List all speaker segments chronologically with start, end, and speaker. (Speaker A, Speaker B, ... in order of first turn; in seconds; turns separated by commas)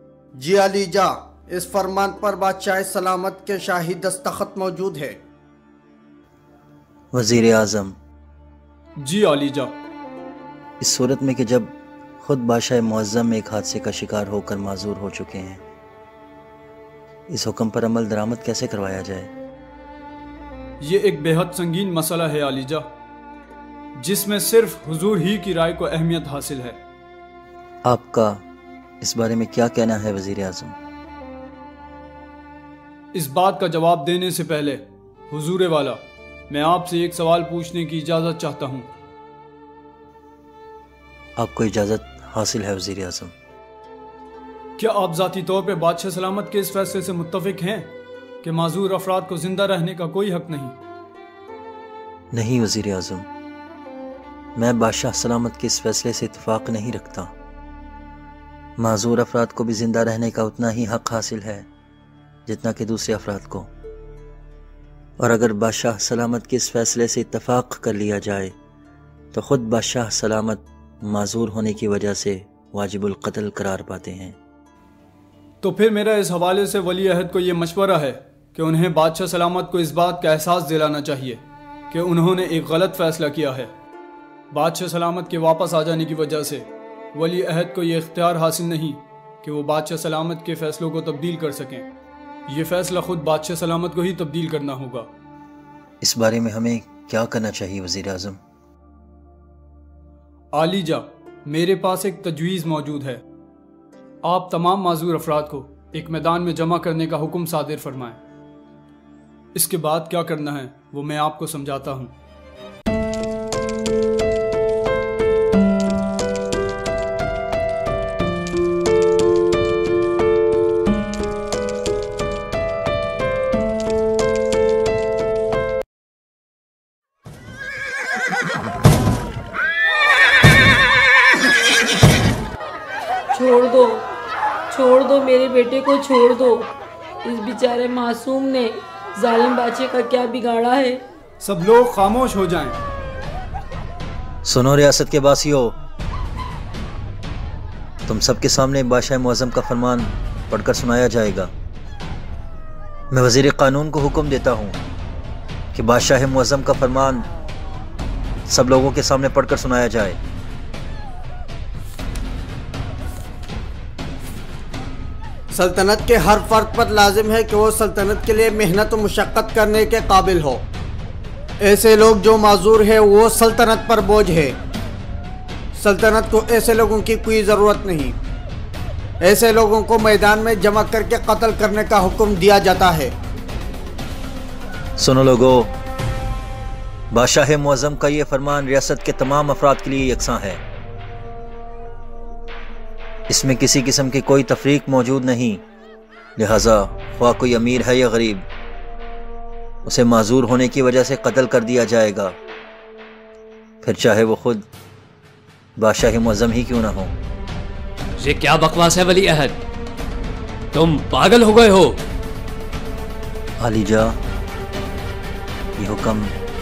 Speaker A: 0.3-5.2, Speaker B: 7.1-7.9, Speaker C: 9.0-9.7, Speaker B: 10.8-15.6, Speaker B: 17.3-19.3, Speaker C: 20.8-22.8, Speaker C: 24.0-26.8, Speaker B: 27.8-28.4, Speaker B: 29.0-30.8, Speaker C: 33.1-38.9, Speaker B: 41.4-43.3, Speaker C: 44.8-50.8, Speaker B: 52.3-53.3, Speaker B: 54.5-57.3, Speaker B: 58.8-61.7, Speaker B: 62.5-63.7, Speaker B: 65.2-68.5, Speaker B: 69.3-74.4, Speaker C: 75.6-83.7, Speaker C: 84.5-91.9, Speaker C: 92.5-95.1, Speaker B: 96.0-98.4, Speaker C: 100.5-103.2, Speaker C: 104.2-108.2, Speaker C: 109.5-112.1, Speaker D: 133.3-134.1, Speaker D: 134.7-136.7, Speaker D: 137.2-141.0, Speaker C: 141.4-142.8, Speaker B: 144.4-145.7, Speaker B: 148.1-151.5, Speaker B: 153.1-154.8, Speaker B: 155.7-157.2, Speaker B: 158.5-160.2, Speaker A: 165.5-170.6, Speaker A: 171.6-174.6, Speaker A: 175.8-178.2, Speaker A: 179.2-183.1, Speaker B: 185.0-185.7, Speaker B: 187.1-190.6, Speaker B: 193.3-195.6, Speaker B: 196.4-198.4, Speaker B: 199.8-202.3, Speaker B: 203.8-204.6, Speaker B: 205.8-207.1, Speaker E: 208.2-209.6, Speaker E: 210.7-212.0, Speaker B: 213.6-214.2, Speaker B: 215.8-216.3